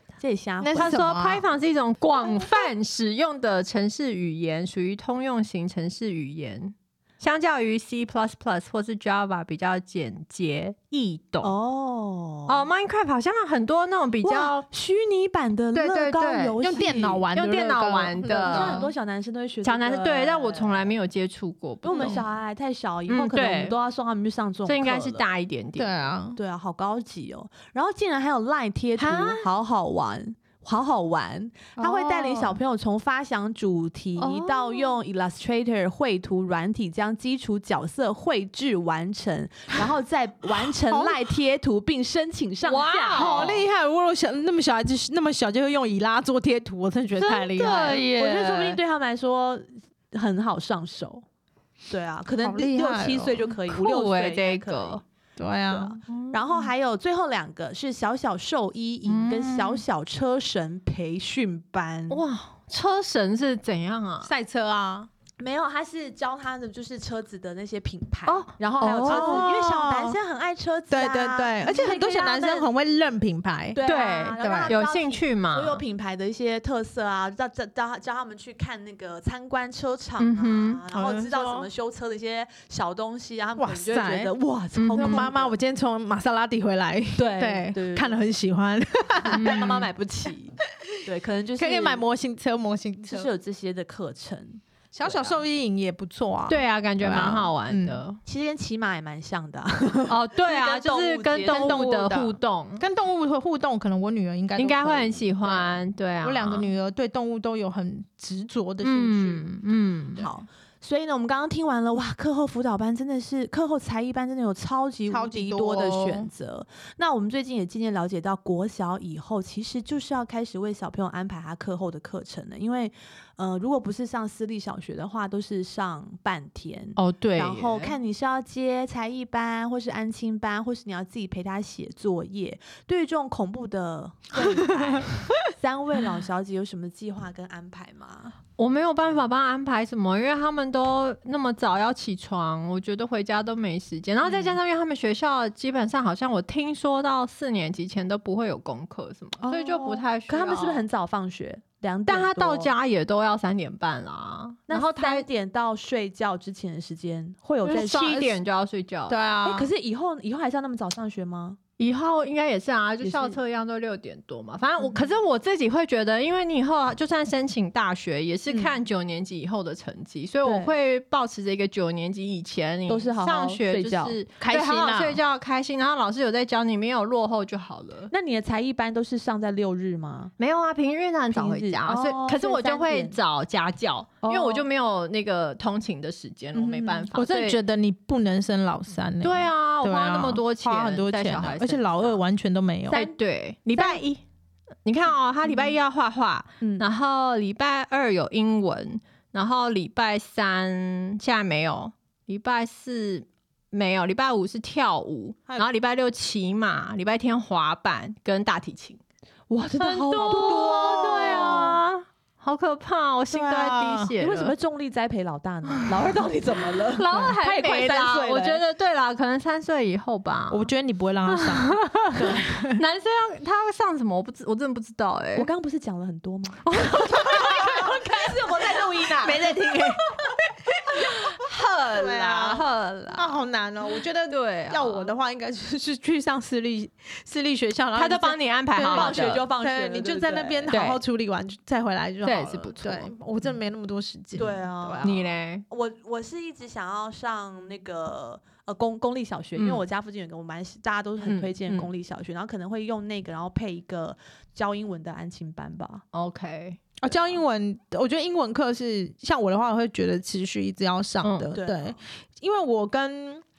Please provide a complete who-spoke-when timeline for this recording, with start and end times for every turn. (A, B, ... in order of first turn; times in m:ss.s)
0:00.2-0:01.0 A
0:00.6-0:01.4 B
0:00.8-0:11.5 C
0:02.2-0:02.7 A
0:11.4-0:12.6 A
0:12.5-0:14.6 C
0:14.2-0:17.2 A
0:15.7-0:18.9 C
0:16.6-0:18.8 B
0:18.4-0:20.9 A
0:19.6-0:22.2 C
0:21.8-0:25.2 A
0:21.9-0:22.2 B
0:23.1-0:23.8 C
0:24.7-0:26.1 C
0:25.8-0:26.4 B
0:26.4-0:43.6 A
0:29.0-0:29.4 C
0:31.8-0:32.6 B
0:34.2-0:34.9 C
0:40.9-0:41.2 B
0:42.6-0:43.6 C
0:43.1-0:48.0 B
0:47.2-0:48.8 C
0:47.6-0:51.2 A
0:51.9-0:55.0 A
0:52.4-0:53.5 B
0:53.7-0:55.0 C
0:55.4-0:56.0 B
0:55.7-1:02.2 A
0:56.1-0:56.7 C
0:59.1-0:59.8 C
1:02.1-1:04.3 C
1:04.2-1:05.1 B
1:05.4-1:12.7 A
1:08.2-1:09.5 C
1:08.8-1:10.2 B
1:10.9-1:13.8 B
1:13.7-1:25.5 A
1:13.8-1:15.8 C
1:14.4-1:14.7 B
1:20.2-1:20.8 C
1:20.9-1:21.7 B
1:23.6-1:24.3 B
1:24.8-1:25.3 C
1:24.9-1:29.7 B
1:27.2-1:28.2 A
1:29.1-1:30.5 A
1:29.4-1:29.7 C
1:31.0-1:32.0 A
1:31.6-1:33.3 B
1:33.1-1:35.4 A
1:34.9-1:38.0 B
1:36.5-1:38.2 C
1:38.2-1:41.9 A
1:40.1-1:42.8 C
1:41.5-1:49.5 B
1:44.6-1:46.7 C
1:48.8-1:50.2 C
1:50.2-2:18.4 A
1:55.1-1:56.3 B
2:07.0-2:08.0 C
2:18.6-2:30.8 C
2:24.2-2:24.6 A
2:29.4-2:32.7 A
2:32.1-2:35.2 C
2:34.7-2:38.3 A
2:37.6-2:38.3 B
2:37.7-2:39.2 C
2:39.1-2:39.7 B
2:39.4-2:41.6 A
2:41.8-2:58.1 C
2:43.0-2:43.4 A
2:48.5-2:48.7 A
2:50.4-2:50.7 A
2:52.9-2:54.2 A
2:54.4-2:55.2 B
2:58.1-3:00.3 A
3:00.4-3:07.6 C
3:01.3-3:03.2 A
3:04.2-3:04.6 A
3:06.6-3:13.0 B
3:09.2-3:12.2 C
3:12.9-3:14.2 C
3:12.9-3:13.2 A
3:13.7-3:14.0 A
3:14.8-3:29.0 C
3:16.6-3:16.8 A
3:29.5-3:31.8 A
3:29.8-3:34.5 C
3:30.2-3:30.8 B
3:33.3-3:34.1 B
3:34.2-3:38.6 A
3:35.7-3:40.7 C
3:40.5-3:42.8 B
3:41.2-3:45.5 C
3:45.4-3:49.6 A
3:46.6-3:48.9 C
3:47.3-3:47.6 B
3:49.2-3:50.0 B
3:51.0-3:53.4 C
3:51.9-4:05.2 B
3:54.3-3:55.1 C
3:57.9-3:59.4 C
3:58.9-4:00.7 A
4:00.7-4:01.0 C
4:02.2-4:03.1 C
4:04.3-4:16.0 A
4:05.0-4:05.6 C
4:09.6-4:09.8 C
4:11.2-4:11.9 C
4:16.1-4:16.9 C
4:17.0-4:23.4 B
4:21.2-4:21.5 C
4:21.5-4:22.0 A